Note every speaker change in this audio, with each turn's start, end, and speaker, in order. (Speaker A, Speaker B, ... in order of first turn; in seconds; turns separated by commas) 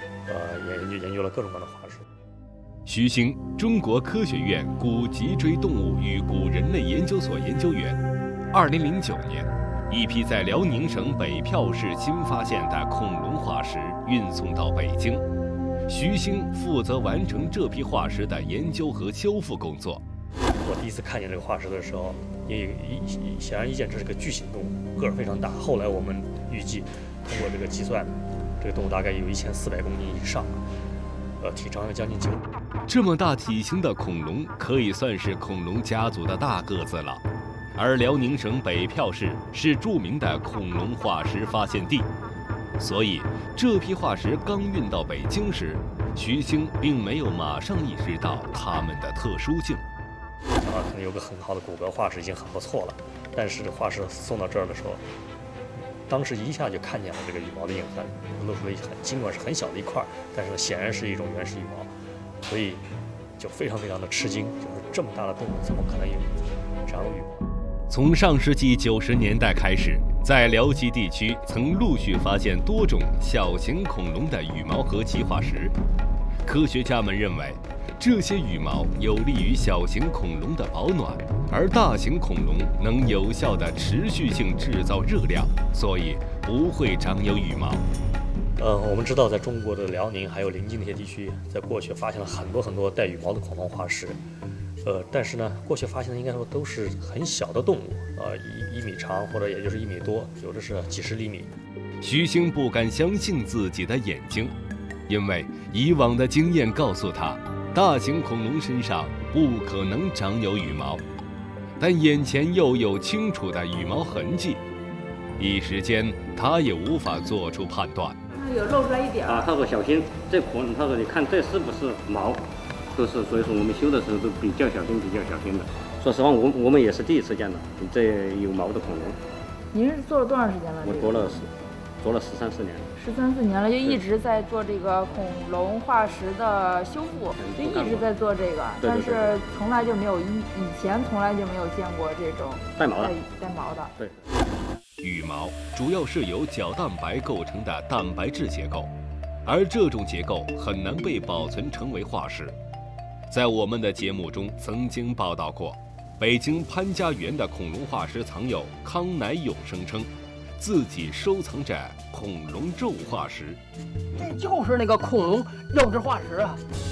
Speaker A: 0.3-2.0, Speaker B: 2.9-8.0, Speaker B: 8.5-15.2, Speaker B: 15.9-20.0, Speaker A: 20.6-30.7, Speaker A: 31.4-32.5, Speaker B: 32.9-37.2, Speaker B: 37.8-42.1, Speaker B: 42.8-49.8, Speaker A: 50.6-55.0, Speaker A: 56.1-61.9, Speaker A: 62.4-62.9, Speaker A: 63.4-67.5, Speaker B: 67.9-75.8, Speaker B: 76.4-87.8, Speaker A: 88.6-94.2, Speaker A: 94.8-101.5, Speaker B: 102.0-104.5, Speaker B: 105.1-111.0, Speaker B: 111.8-114.6, Speaker B: 115.4-118.2, Speaker C: 118.3-119.3, Speaker D: 119.3-129.2, Speaker C: 129.7-131.3, Speaker D: 130.8-131.5, Speaker D: 132.0-132.9, Speaker C: 133.0-143.9, Speaker D: 137.4-138.1, Speaker D: 138.8-139.6, Speaker D: 142.8-143.2, Speaker B: 145.0-148.9, Speaker B: 149.4-152.6, Speaker B: 153.3-163.6, Speaker E: 164.2-166.6